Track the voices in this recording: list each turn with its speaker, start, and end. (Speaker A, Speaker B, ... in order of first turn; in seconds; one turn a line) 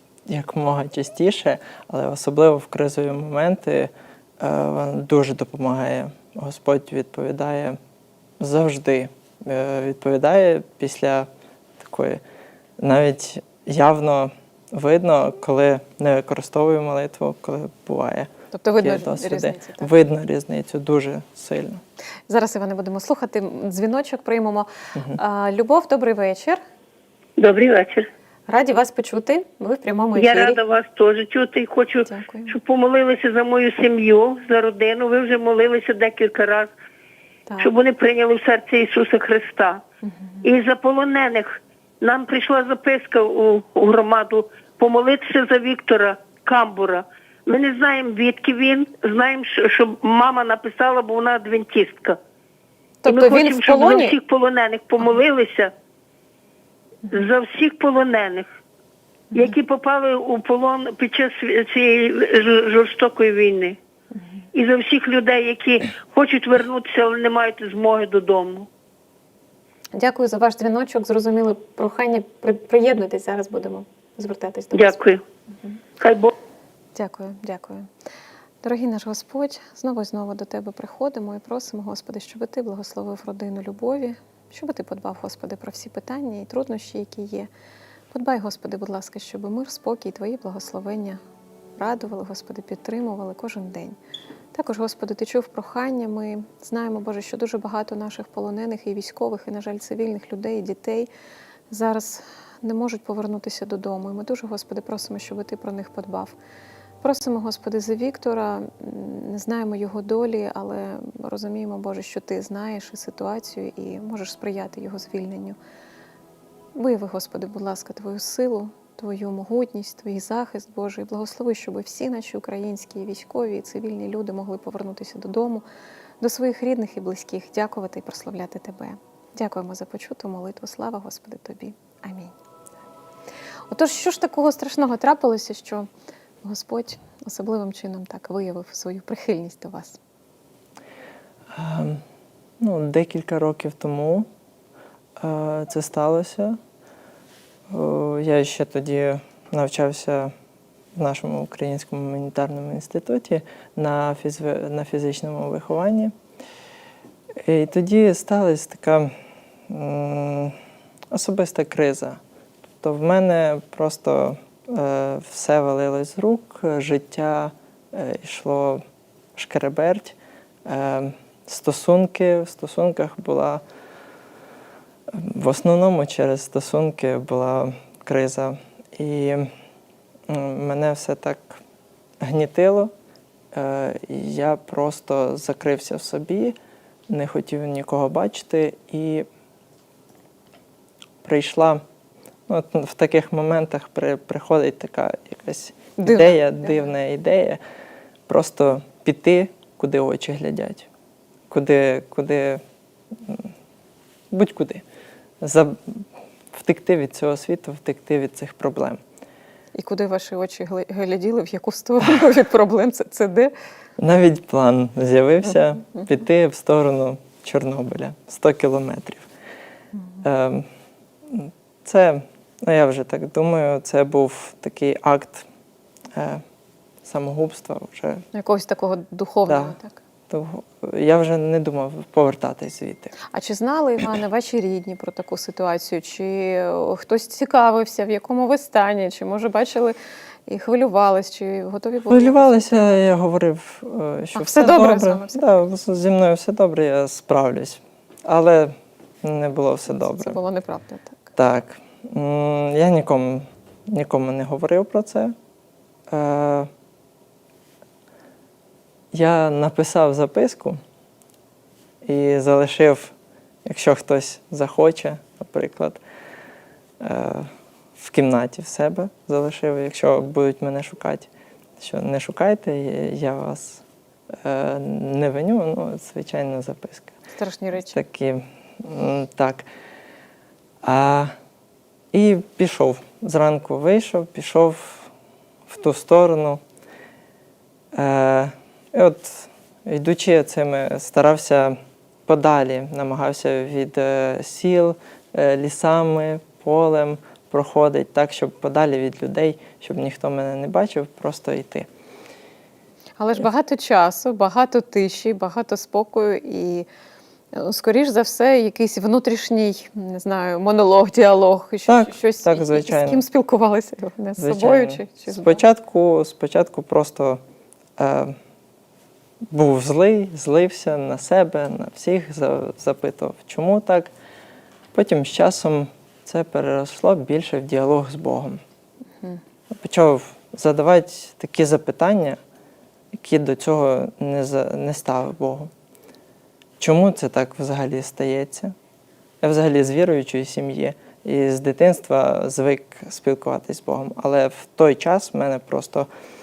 Speaker A: 0.3-7.8
Speaker A: 8.4-12.2
Speaker A: 12.8-21.8
Speaker B: 18.5-19.9
Speaker B: 22.3-26.6
Speaker C: 27.4-28.1
Speaker B: 28.5-30.6
Speaker C: 30.1-36.7
Speaker B: 32.0-32.5
Speaker C: 37.6-39.8
Speaker B: 40.1-40.4
Speaker C: 40.4-52.2
Speaker B: 53.0-54.2
Speaker C: 53.1-55.7
Speaker C: 57.1-58.5
Speaker C: 59.3-63.8
Speaker C: 64.5-68.7
Speaker B: 70.0-75.0
Speaker C: 74.7-75.2
Speaker C: 76.0-76.3
Speaker B: 77.0-77.9
Speaker B: 78.6-87.5
Speaker B: 88.1-91.2
Speaker B: 91.8-94.0
Speaker B: 94.5-101.1
Speaker B: 101.7-106.4
Speaker B: 107.0-115.6
Speaker B: 116.8-125.7
Speaker B: 126.2-132.3
Speaker B: 133.7-135.9
Speaker B: 136.4-140.0
Speaker A: 141.5-142.0
Speaker A: 142.6-144.3
Speaker A: 145.2-146.6
Speaker A: 147.7-150.3
Speaker A: 151.0-156.2
Speaker A: 157.4-159.1
Speaker A: 159.7-160.6
Speaker A: 161.1-162.2
Speaker A: 162.8-168.8
Speaker A: 169.4-173.6
Speaker A: 175.1-179.5
Speaker A: 180.3-181.6
Speaker A: 182.2-182.9
Speaker A: 183.5-186.6
Speaker A: 187.1-189.3
Speaker A: 191.2-191.8
Speaker A: 192.5-197.6
Speaker B: 196.0-196.8
Speaker A: 198.3-200.9
Speaker A: 201.5-203.5
Speaker A: 204.3-204.8
Speaker A: 205.4-209.0
Speaker B: 209.8-213.5
Speaker A: 214.0-219.3
Speaker A: 220.2-220.7
Speaker A: 221.3-225.5
Speaker A: 226.2-226.4
Speaker A: 227.0-228.2
Speaker B: 228.3-230.0
Speaker A: 229.5-229.8
Speaker A: 230.3-233.1
Speaker B: 233.3-243.1
Speaker A: 242.1-250.4
Speaker B: 244.3-245.4
Speaker B: 249.9-251.3
Speaker A: 251.4-255.4
Speaker A: 256.1-256.7
Speaker A: 259.1-260.8
Speaker A: 262.0-266.0
Speaker A: 267.0-277.2
Speaker B: 277.4-278.0
Speaker A: 277.8-279.7
Speaker A: 280.8-281.4
Speaker A: 282.1-285.1
Speaker A: 285.7-286.6
Speaker A: 287.9-301.9
Speaker B: 303.2-306.9
Speaker B: 307.5-315.6
Speaker A: 311.9-313.2
Speaker A: 314.4-317.4
Speaker A: 318.0-318.4
Speaker A: 319.5-324.1
Speaker A: 324.9-328.6
Speaker A: 329.7-332.4
Speaker A: 333.1-335.7
Speaker A: 336.8-338.8
Speaker A: 339.4-346.1